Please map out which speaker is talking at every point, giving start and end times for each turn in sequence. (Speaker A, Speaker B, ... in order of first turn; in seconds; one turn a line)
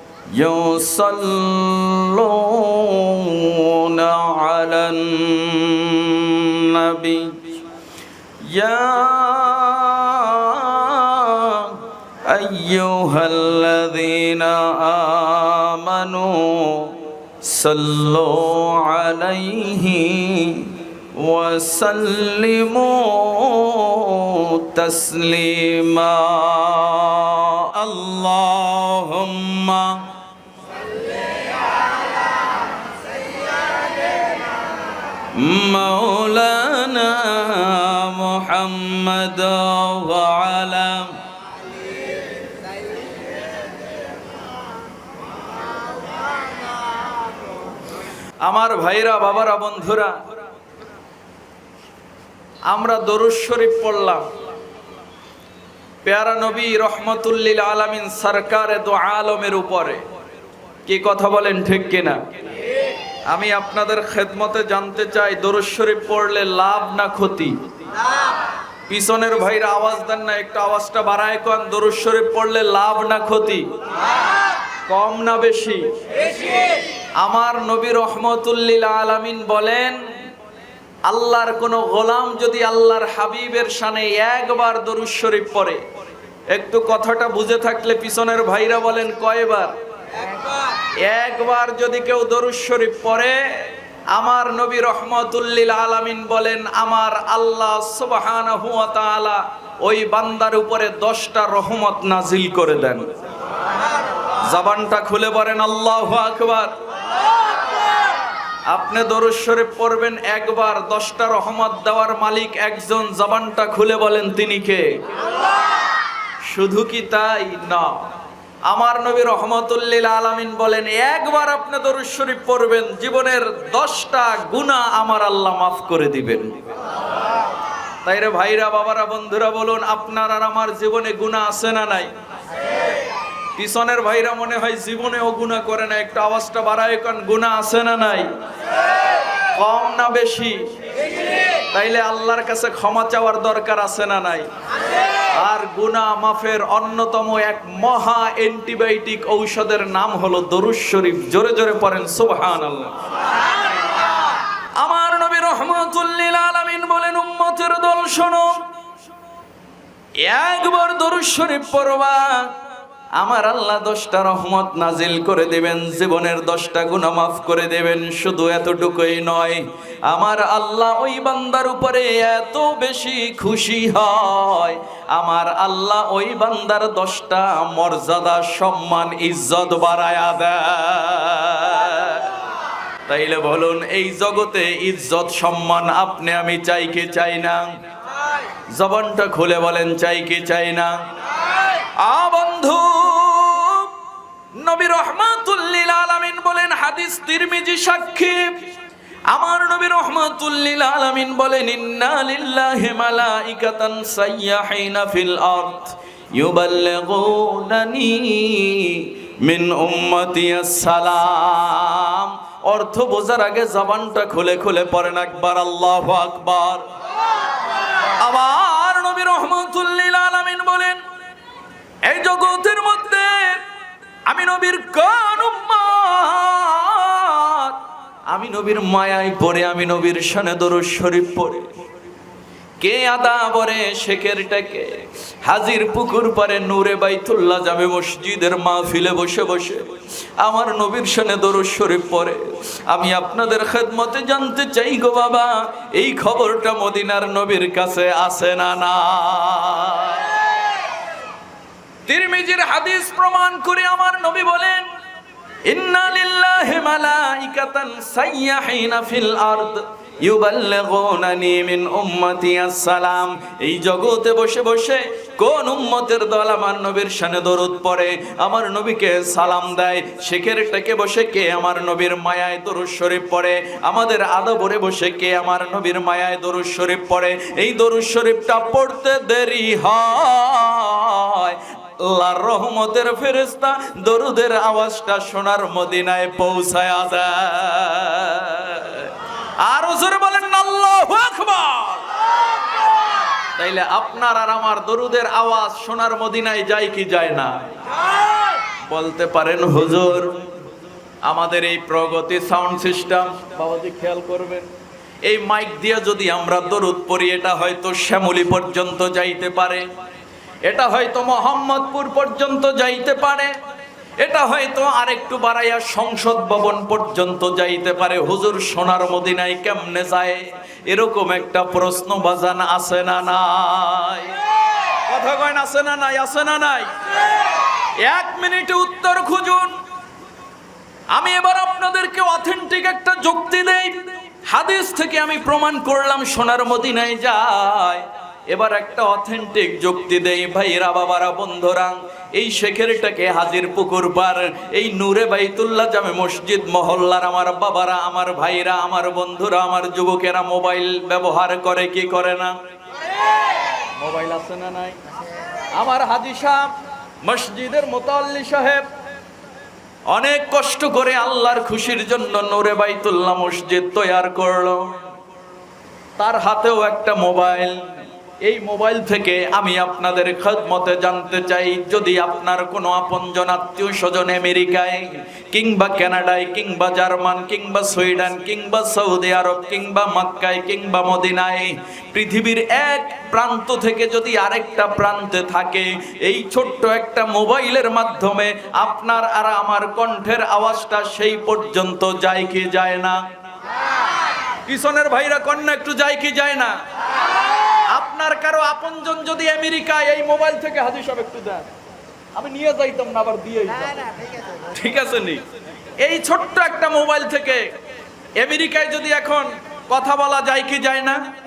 Speaker A: 0.3-7.4
Speaker A: 8.4-30.1
Speaker A: 35.3-41.1
Speaker A: 48.4-50.2
Speaker A: 52.7-54.2
Speaker A: 56.0-60.0
Speaker A: 60.9-62.2
Speaker A: 63.3-67.5
Speaker A: 68.9-73.7
Speaker A: 74.9-75.8
Speaker A: 77.2-80.0
Speaker A: 81.1-85.8
Speaker A: 86.5-89.7
Speaker A: 91.0-93.4
Speaker A: 94.1-103.0
Speaker A: 104.4-106.7
Speaker A: 108.7-115.0
Speaker A: 116.5-118.1
Speaker A: 118.7-126.6
Speaker A: 128.0-132.1
Speaker A: 133.6-138.3
Speaker A: 139.5-140.6
Speaker A: 141.7-144.5
Speaker A: 145.4-153.0
Speaker A: 154.8-158.6
Speaker A: 160.2-162.5
Speaker A: 163.2-182.4
Speaker A: 183.1-187.7
Speaker A: 188.7-191.0
Speaker A: 192.0-193.9
Speaker A: 194.6-198.6
Speaker A: 199.3-216.8
Speaker A: 218.2-221.0
Speaker A: 222.1-223.7
Speaker A: 224.3-227.8
Speaker A: 228.3-231.7
Speaker A: 232.8-239.8
Speaker A: 240.4-250.4
Speaker A: 252.1-254.9
Speaker A: 255.7-292.1
Speaker A: 293.6-297.5
Speaker A: 298.8-300.4
Speaker A: 301.3-304.7
Speaker A: 305.3-309.9
Speaker A: 310.7-313.5
Speaker A: 314.2-329.7
Speaker A: 331.1-352.6
Speaker A: 354.0-355.0
Speaker A: 355.7-356.7
Speaker A: 357.2-358.9
Speaker A: 360.1-365.0
Speaker A: 366.2-367.8
Speaker A: 368.4-393.2
Speaker A: 394.7-396.7
Speaker A: 397.7-401.7
Speaker A: 402.4-405.4
Speaker A: 406.0-407.7
Speaker A: 408.4-411.2